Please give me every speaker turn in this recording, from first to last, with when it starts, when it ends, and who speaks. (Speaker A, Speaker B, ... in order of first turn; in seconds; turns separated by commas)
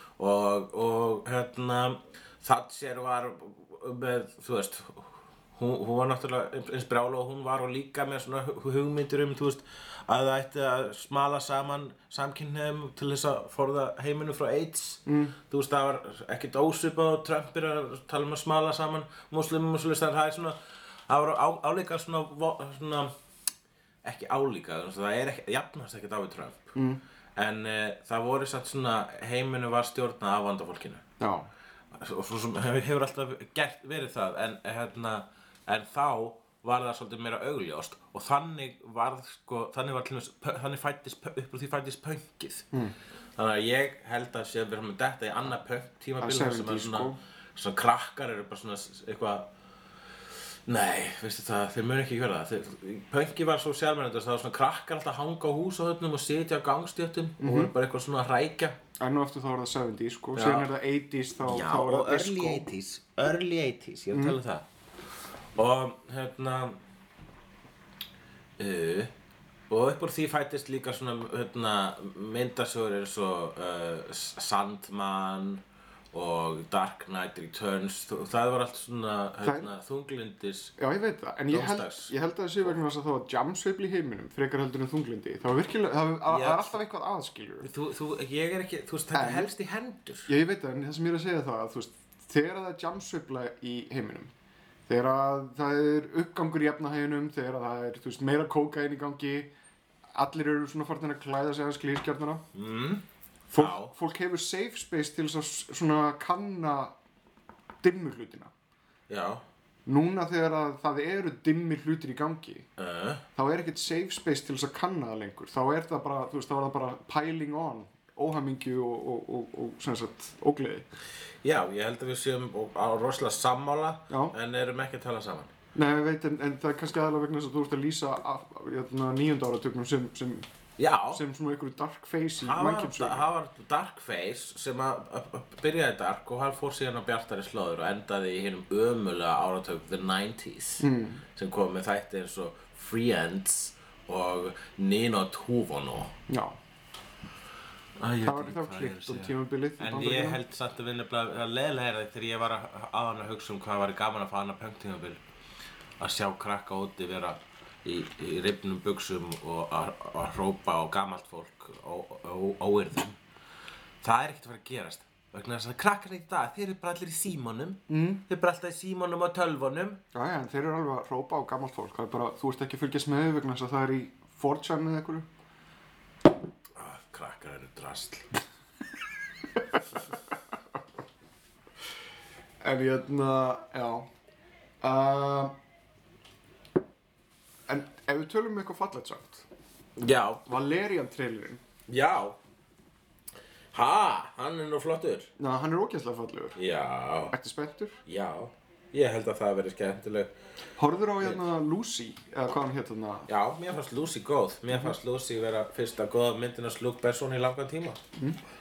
Speaker A: 0.2-23.1, Speaker B: 15.1-15.4, Speaker A: 24.0-26.7, Speaker B: 26.8-27.0, Speaker A: 27.4-31.0, Speaker B: 31.2-31.5, Speaker A: 31.9-42.7, Speaker A: 43.4-49.5, Speaker B: 46.2-47.2, Speaker A: 50.7-58.8, Speaker B: 57.4-57.7, Speaker B: 59.0-62.7, Speaker A: 60.4-60.7, Speaker A: 61.4-64.7, Speaker B: 64.1-64.4, Speaker A: 65.5-66.8, Speaker A: 68.6-69.1, Speaker A: 69.7-80.8, Speaker B: 79.4-79.7, Speaker B: 80.8-87.7, Speaker A: 81.5-82.1, Speaker A: 86.3-86.8, Speaker A: 87.6-90.3, Speaker B: 89.1-89.5, Speaker B: 90.3-94.3, Speaker B: 94.9-99.5, Speaker B: 100.1-102.4, Speaker A: 102.5-103.9, Speaker B: 103.5-106.9, Speaker B: 107.8-108.5, Speaker A: 109.1-109.4, Speaker B: 109.9-112.7, Speaker A: 112.8-113.2, Speaker B: 113.4-120.8, Speaker A: 121.4-125.5, Speaker B: 124.1-124.3, Speaker B: 125.8-130.5, Speaker A: 130.8-131.2, Speaker B: 131.1-133.3, Speaker A: 132.4-146.1, Speaker B: 140.8-141.2, Speaker B: 146.3-146.6, Speaker A: 148.0-155.2, Speaker B: 148.2-150.4, Speaker A: 156.0-163.2, Speaker A: 164.0-170.0, Speaker B: 167.9-168.2, Speaker B: 170.1-175.3, Speaker A: 176.8-178.3, Speaker B: 182.6-184.1, Speaker B: 184.8-185.6, Speaker B: 187.7-189.5, Speaker A: 190.0-190.5, Speaker B: 190.5-191.6, Speaker A: 191.9-192.4, Speaker A: 193.7-195.3, Speaker B: 195.4-196.6, Speaker A: 196.6-197.3, Speaker B: 197.3-198.0, Speaker A: 198.1-200.3, Speaker B: 200.8-203.3, Speaker A: 203.3-208.0